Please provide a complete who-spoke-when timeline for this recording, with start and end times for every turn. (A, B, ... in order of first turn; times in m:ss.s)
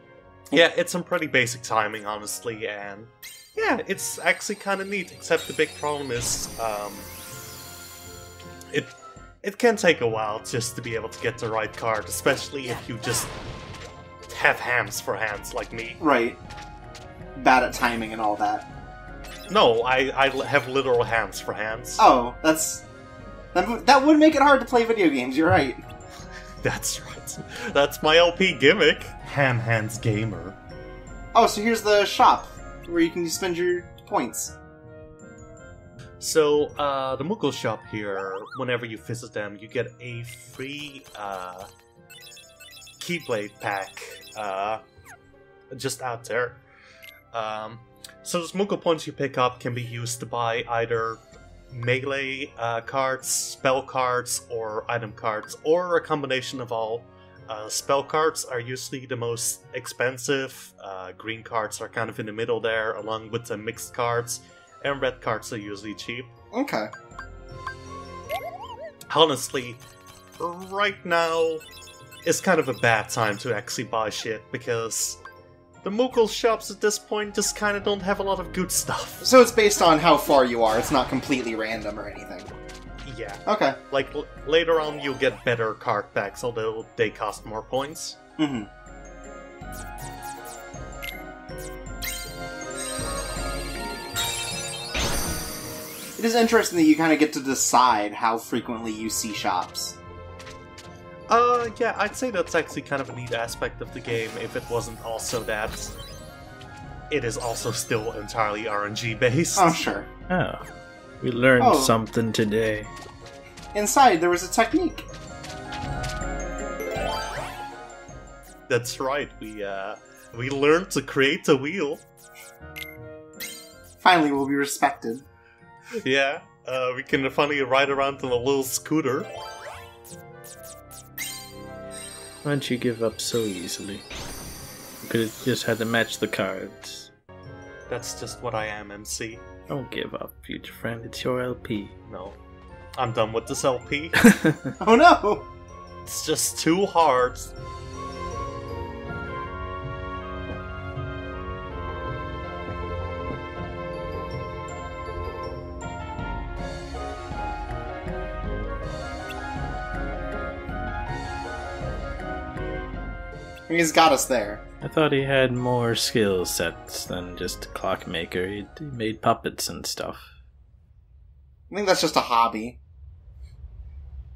0:00.5-0:07.1 A
0:08.7-0:13.3 A
0:14.3-0:16.0 A
0:16.0-0:16.4 B
0:17.3-0:18.6 B
0:19.5-0:22.0 A
0:22.0-0:22.8 B
0:23.5-0:25.8 B
0:26.6-0:30.6 A
0:31.3-0:34.6 B
0:36.2-0:41.7 A
0:43.0-0:44.8 A
0:45.7-0:46.6 A
0:47.3-1:06.3 A
1:06.5-1:06.9 B
1:09.1-1:09.8 A
1:10.4-1:11.6 A
1:12.2-1:15.2 A
1:15.8-1:19.3 A
1:19.2-1:22.5 B
1:23.0-1:28.2 A
1:23.4-1:23.8 B
1:28.4-1:28.7 B
1:36.2-1:40.0 B
1:41.3-1:45.9 A
1:47.1-1:49.8 A
1:49.6-1:50.1 B
1:50.3-1:50.6 C
1:51.2-1:52.9 C
1:51.6-1:51.9 B
1:53.7-1:55.1 B
1:58.7-2:02.0 A
2:04.0-2:05.2 B
2:06.0-2:09.3 A
2:12.4-2:14.0 C
2:15.0-2:17.1 C
2:17.9-2:19.4 A
2:19.7-2:21.9 C
2:22.0-2:22.4 A
2:23.0-2:24.2 A
2:24.2-2:24.7 C
2:24.8-2:25.5 B
2:26.0-2:27.5 A
2:43.7-2:44.6 B
2:44.8-2:50.3 C
2:51.7-2:52.8 B